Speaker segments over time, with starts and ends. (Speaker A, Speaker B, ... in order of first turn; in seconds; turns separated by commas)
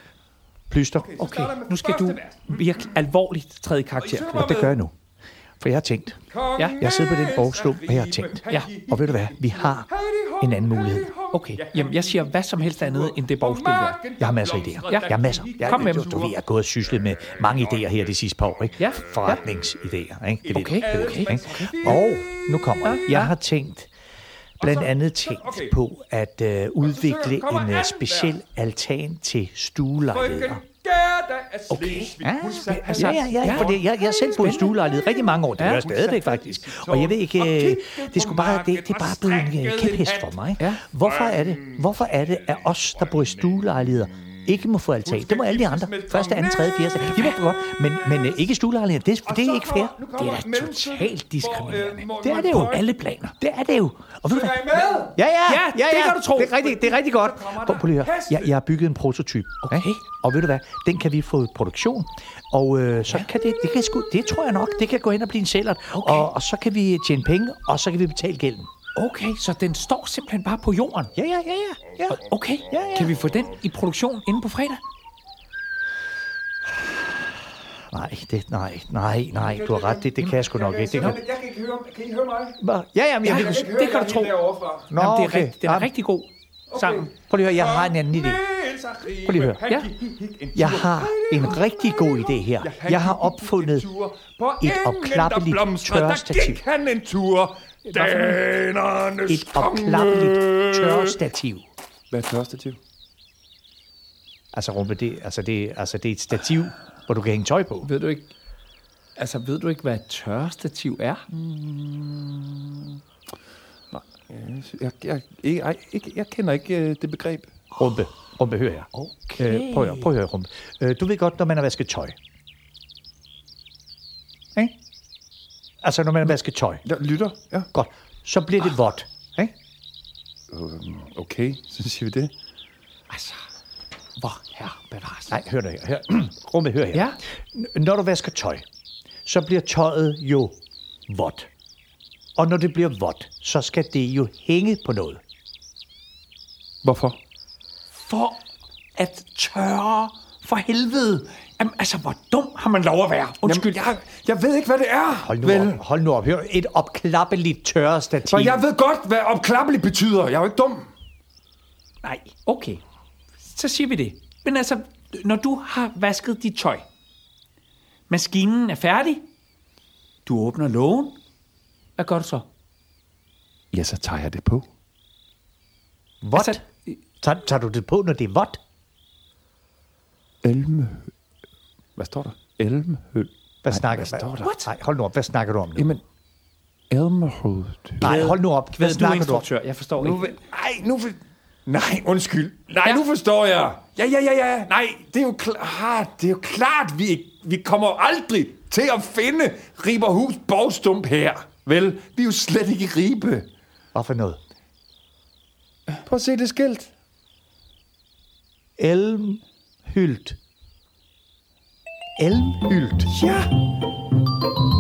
Speaker A: 0.7-1.1, Speaker B: 1.0-2.9, Speaker C: 1.2-4.5, Speaker B: 4.0-4.8, Speaker A: 4.3-4.9, Speaker A: 5.6-6.2, Speaker B: 6.3-16.4, Speaker C: 6.6-6.8, Speaker A: 6.8-9.9, Speaker A: 10.4-11.1, Speaker C: 11.3-14.0, Speaker A: 14.2-21.1, Speaker C: 14.8-16.3, Speaker C: 18.8-19.4, Speaker B: 20.4-23.2, Speaker C: 20.5-21.9, Speaker A: 21.8-23.9, Speaker C: 22.8-23.3, Speaker B: 24.6-25.8, Speaker A: 24.6-30.6, Speaker B: 26.8-28.4, Speaker B: 30.0-34.6, Speaker C: 31.7-34.8, Speaker A: 32.2-50.0, Speaker C: 35.6-36.4, Speaker B: 36.0-40.4, Speaker B: 41.2-41.8, Speaker B: 45.0-47.4, Speaker B: 49.2-52.9, Speaker C: 50.1-53.4, Speaker A: 52.2-52.8, Speaker A: 53.4-68.7, Speaker B: 54.3-55.2, Speaker C: 55.5-56.8, Speaker B: 56.8-58.5, Speaker C: 59.6-60.0, Speaker C: 66.0-66.3, Speaker C: 69.0-71.1, Speaker A: 71.1-73.2, Speaker C: 72.1-74.8, Speaker A: 77.9-81.2, Speaker B: 79.3-82.6, Speaker A: 82.6-83.7, Speaker B: 83.2-84.9, Speaker C: 83.2-84.3, Speaker A: 84.9-85.9, Speaker C: 84.9-87.1, Speaker B: 86.7-101.2, Speaker A: 87.3-88.4, Speaker A: 89.2-89.6, Speaker A: 90.5-93.9, Speaker A: 94.6-96.6, Speaker C: 97.9-98.3, Speaker A: 99.3-101.6, Speaker B: 102.1-102.8, Speaker A: 104.5-107.9, Speaker C: 107.8-108.3, Speaker C: 109.2-111.2, Speaker B: 111.3-113.0, Speaker B: 113.9-117.5, Speaker A: 117.8-122.1, Speaker C: 118.9-120.1, Speaker A: 125.8-126.8, Speaker B: 126.8-127.7, Speaker A: 127.7-129.5, Speaker B: 130.5-132.3, Speaker C: 133.1-133.4, Speaker C: 134.2-135.4, Speaker A: 135.3-138.6, Speaker A: 139.2-140.6, Speaker A: 141.1-141.5, Speaker A: 142.3-145.2, Speaker B: 146.8-147.2, Speaker C: 147.9-148.4, Speaker C: 148.9-153.8, Speaker B: 153.4-155.8, Speaker A: 155.2-158.7, Speaker B: 158.2-160.9, Speaker C: 162.0-162.8, Speaker C: 163.4-166.8, Speaker C: 168.1-169.2, Speaker C: 170.2-171.2, Speaker C: 172.0-172.4, Speaker B: 173.7-174.7, Speaker A: 176.2-176.6, Speaker C: 176.3-177.0, Speaker A: 177.2-178.6, Speaker B: 180.4-181.1, Speaker B: 182.0-184.6, Speaker A: 183.6-185.9, Speaker C: 184.4-184.7, Speaker B: 185.8-186.0, Speaker B: 186.9-188.2, Speaker A: 188.0-189.4, Speaker C: 188.0-190.3, Speaker B: 190.0-203.5, Speaker A: 203.9-204.4, Speaker B: 206.1-206.9, Speaker A: 208.8-210.4, Speaker A: 212.2-213.1, Speaker B: 213.1-213.5